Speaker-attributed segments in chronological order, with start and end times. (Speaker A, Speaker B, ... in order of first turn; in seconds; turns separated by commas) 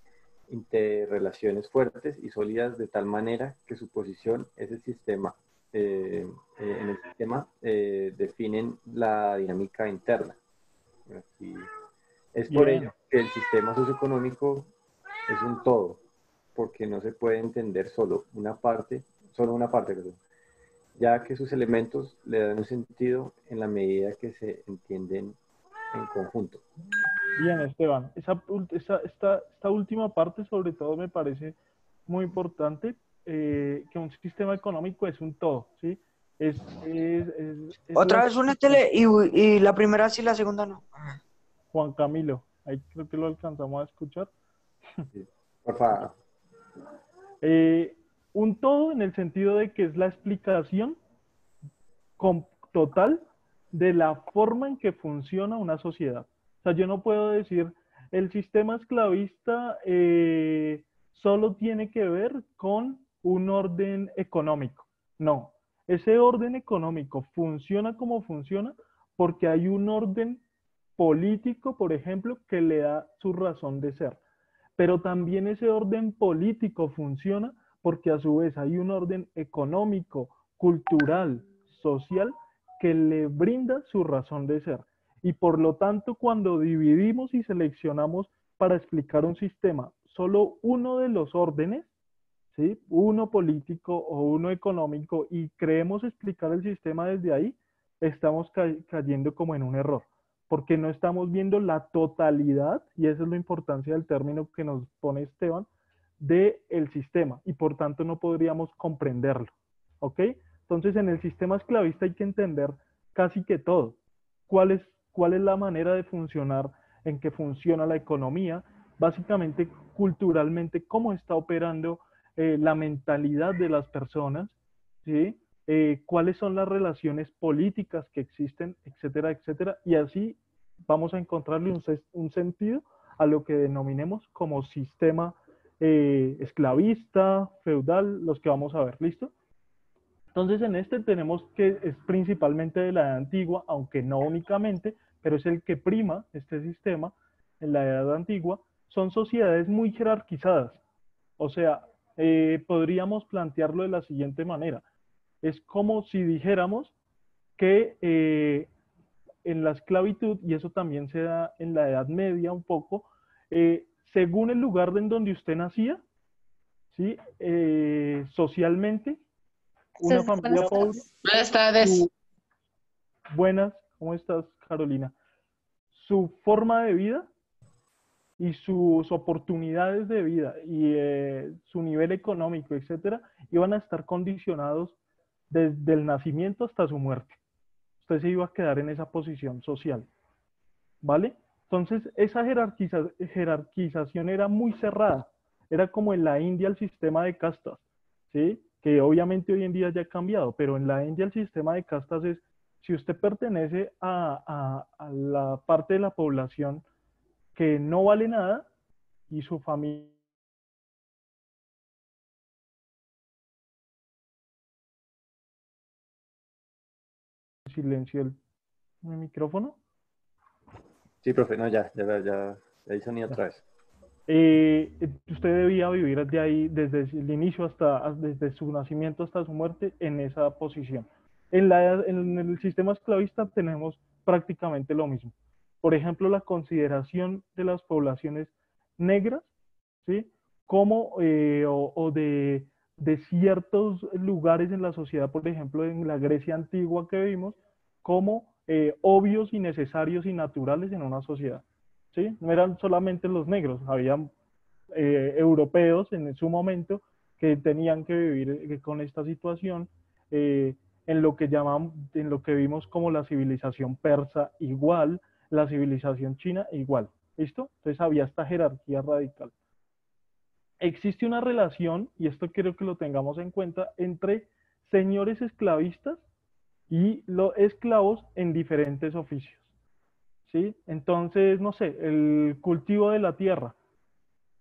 Speaker A: 0.5-10.4, Speaker A: 11.1-11.7, Speaker A: 12.3-14.7, Speaker B: 12.5-12.9, Speaker A: 15.3-16.0, Speaker A: 16.6-20.2, Speaker A: 21.0-25.4, Speaker A: 25.9-26.6, Speaker B: 27.4-31.6, Speaker B: 32.1-38.9, Speaker C: 38.0-40.9, Speaker B: 41.7-44.3, Speaker A: 45.1-46.1, Speaker B: 47.4-51.0, Speaker B: 52.2-70.4, Speaker B: 71.0-74.2, Speaker B: 74.8-91.9, Speaker B: 92.5-105.7, Speaker B: 106.2-114.0, Speaker B: 114.5-139.3, Speaker B: 140.3-150.8, Speaker B: 151.4-154.8, Speaker B: 155.4-156.9, Speaker B: 157.6-158.7, Speaker B: 159.4-166.0, Speaker B: 166.9-169.2, Speaker B: 170.0-171.1, Speaker D: 170.0-172.0, Speaker B: 171.7-172.1, Speaker B: 173.3-175.2, Speaker B: 175.9-177.3, Speaker B: 178.4-185.0, Speaker B: 185.5-187.4, Speaker B: 188.0-190.1, Speaker B: 191.0-206.8, Speaker B: 207.6-208.7, Speaker B: 209.3-210.1, Speaker B: 217.7-218.4, Speaker B: 219.0-219.8, Speaker A: 221.2-223.6, Speaker B: 224.3-239.5, Speaker B: 240.0-254.3, Speaker B: 254.9-269.5, Speaker B: 270.8-276.2, Speaker B: 276.9-279.7, Speaker B: 280.5-283.8